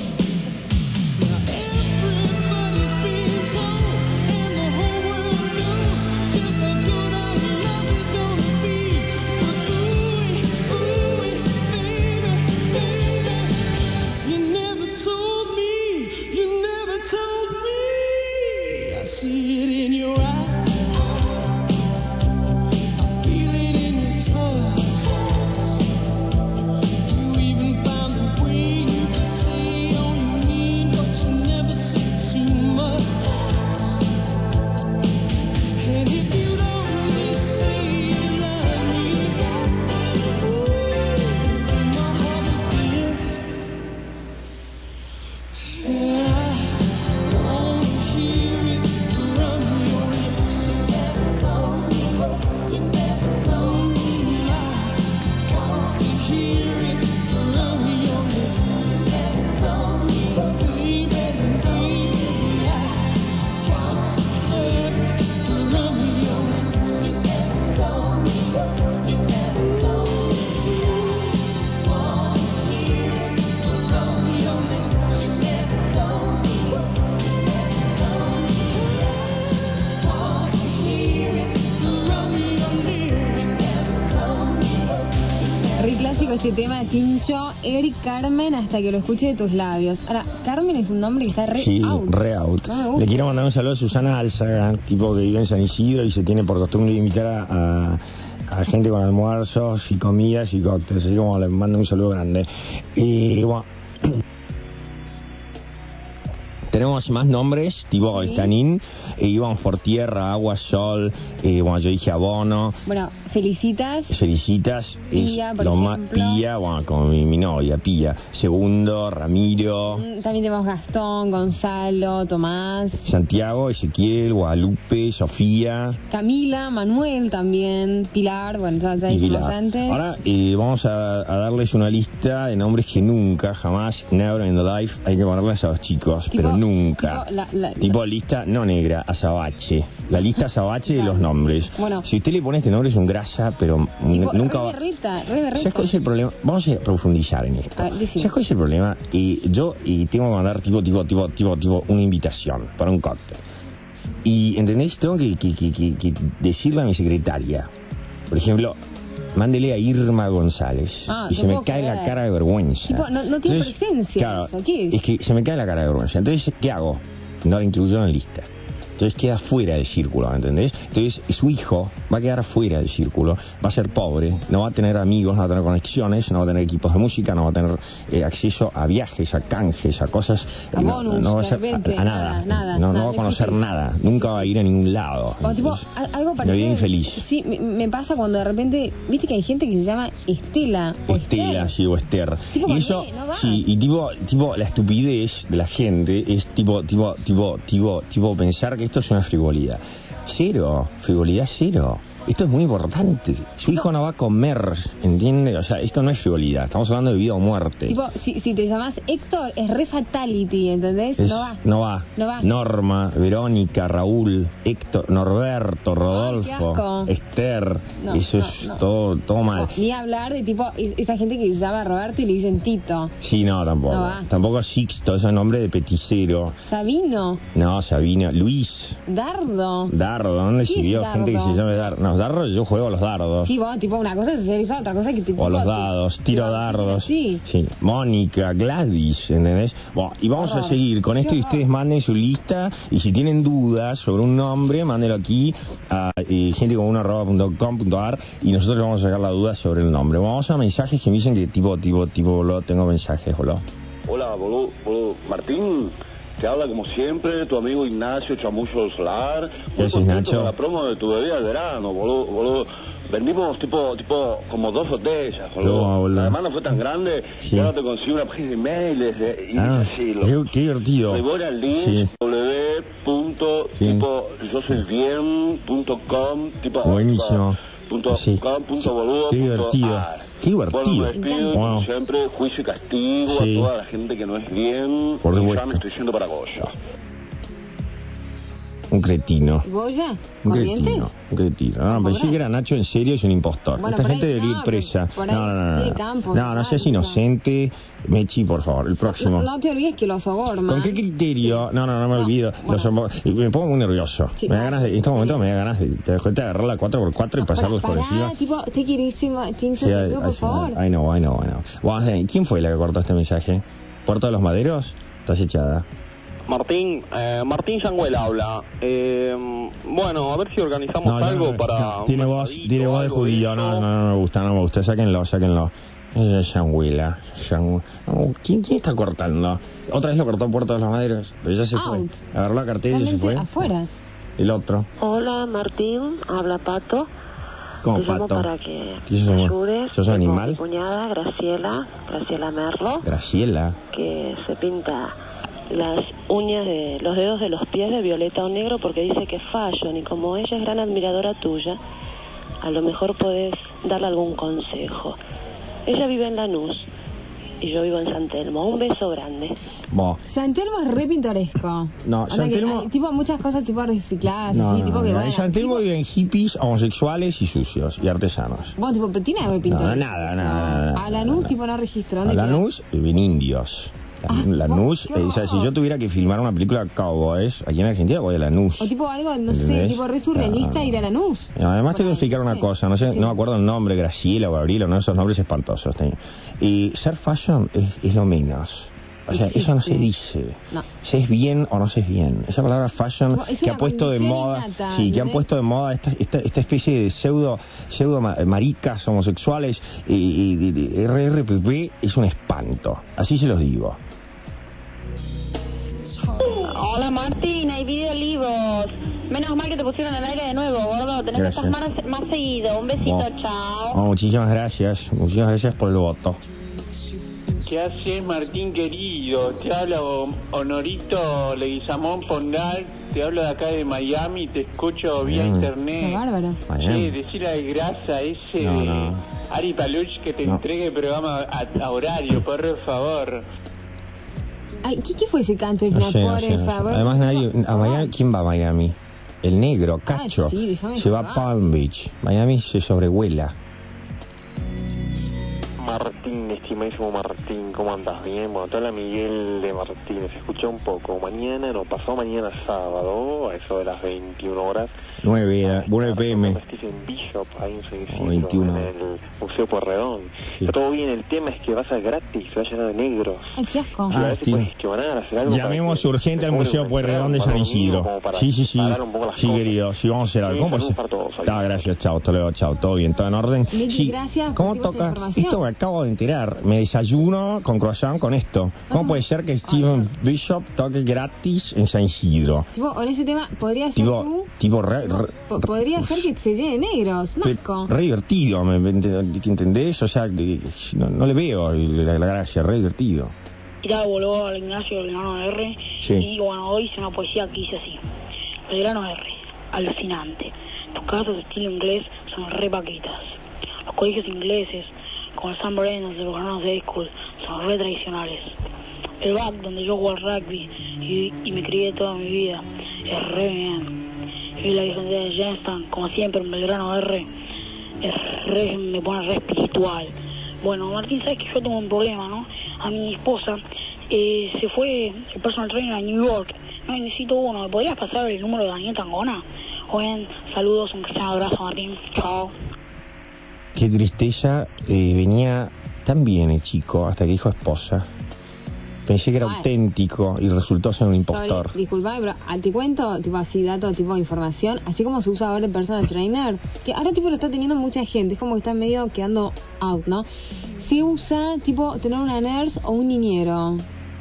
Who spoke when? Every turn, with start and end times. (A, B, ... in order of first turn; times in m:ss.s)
0:01.2-0:13.6 A
0:14.2-0:20.9 A
0:23.1-0:25.7 A
0:27.0-0:33.6 A
0:35.8-0:43.3 A
0:45.7-1:03.1 A
1:03.6-1:08.6 A
1:09.1-1:11.3 A
1:11.9-1:16.8 A
1:17.5-1:25.0 A
1:25.8-1:32.1 B
1:31.5-1:44.1 C
1:32.6-1:33.3 B
1:46.7-1:52.8 C
1:48.1-1:48.5 B
1:52.9-1:54.2 B
1:54.1-2:00.0 C
1:55.1-1:56.4 B
1:59.9-2:03.1 B
2:03.0-2:06.0 C
2:06.1-2:10.0 B
2:09.1-2:17.3 C
2:16.3-2:18.0 B
2:17.8-2:24.8 C
2:20.9-2:22.1 B
2:24.1-2:25.9 B
2:25.5-2:33.4 C
2:27.8-2:28.3 B
2:34.2-2:37.7 C
2:38.3-2:38.8 C
2:39.4-3:05.8 C
2:41.1-2:42.2 B
2:42.9-2:45.0 B
3:00.7-3:04.5 B
3:05.4-3:11.7 B
3:06.4-3:07.2 C
3:11.1-3:28.0 C
3:12.5-3:13.6 B
3:27.9-3:31.6 B
3:31.2-3:39.7 C
3:32.2-3:32.5 B
3:36.1-3:37.1 B
3:38.0-3:38.8 B
3:39.5-3:43.1 B
3:43.2-3:46.6 C
3:43.9-3:44.3 B
3:46.6-3:47.4 B
3:47.5-3:49.0 C
3:49.1-3:49.9 B
3:49.9-3:53.5 C
3:50.6-3:51.6 B
3:53.4-3:57.4 B
3:55.4-4:13.6 C
4:00.4-4:01.6 B
4:14.1-4:30.4 D
4:19.8-4:20.6 C
4:25.6-4:26.4 C
4:27.4-4:27.7 C
4:29.6-4:32.1 C
4:31.1-4:46.7 D
4:33.8-4:34.1 C
4:36.8-4:41.9 C
4:41.1-4:41.6 B
4:43.3-4:43.7 C
4:45.2-4:45.8 C
4:48.9-4:49.7 C
4:49.6-4:51.1 B
4:50.4-4:59.5 C
4:51.9-4:52.4 B
4:53.8-4:57.2 B
4:59.0-5:02.9 B
5:00.7-5:08.4 C
5:04.4-5:05.4 B
5:07.4-5:10.8 B
5:09.8-5:15.9 C
5:16.5-5:23.9 E
5:21.0-5:33.7 C
5:31.7-5:32.2 B
5:32.9-5:33.9 B
5:34.4-5:34.9 C
5:35.0-5:37.1 F
5:37.8-5:38.5 C
5:37.9-5:43.1 F
5:39.0-5:40.6 C
5:43.0-5:43.8 C
5:43.9-5:45.2 F
5:45.7-5:51.8 F
5:52.6-5:55.2 F
5:55.9-5:56.9 F
5:57.6-5:59.6 F
5:59.9-6:00.2 C
6:00.3-6:05.8 B
6:02.0-6:02.9 C
6:04.5-6:08.8 C
6:08.8-6:12.6 B
6:09.7-6:11.6 C
6:12.2-6:18.9 C
6:14.3-6:15.7 B
6:18.8-6:23.4 B
6:19.5-6:44.0 C
6:29.3-6:30.1 B
6:33.3-6:35.4 B
6:46.4-6:54.0 G
6:51.4-6:51.8 C
6:53.0-6:53.3 C
6:53.9-6:56.4 C
6:57.6-7:06.2 H
7:05.2-7:05.7 C
7:06.0-7:06.6 B
7:06.7-7:07.2 C
7:06.8-7:13.4 H
7:08.6-7:09.2 C
7:14.8-7:18.1 B
7:15.9-7:23.6 C
7:20.1-7:21.5 B
7:25.8-7:34.9 I
7:35.2-7:36.6 C
7:35.6-7:43.6 I
7:38.1-7:38.9 C
7:43.6-7:44.2 B
7:44.1-7:44.7 C
7:44.1-7:49.8 I
7:45.5-8:02.7 C
7:50.4-7:51.9 I
7:53.7-7:55.6 B
7:58.9-8:00.1 B
8:02.7-8:04.5 B
8:04.0-8:06.3 C
8:05.0-8:07.9 B
8:07.4-8:13.3 C
8:13.8-8:18.0 J
8:16.0-8:16.3 C
8:18.7-8:28.6 J
8:29.2-8:33.9 J
8:34.6-8:37.3 J
8:38.0-8:52.6 J
8:53.8-8:58.1 C
8:59.1-9:01.8 C
8:59.4-8:59.7 B
9:01.3-9:10.3 B
9:10.8-9:13.8 B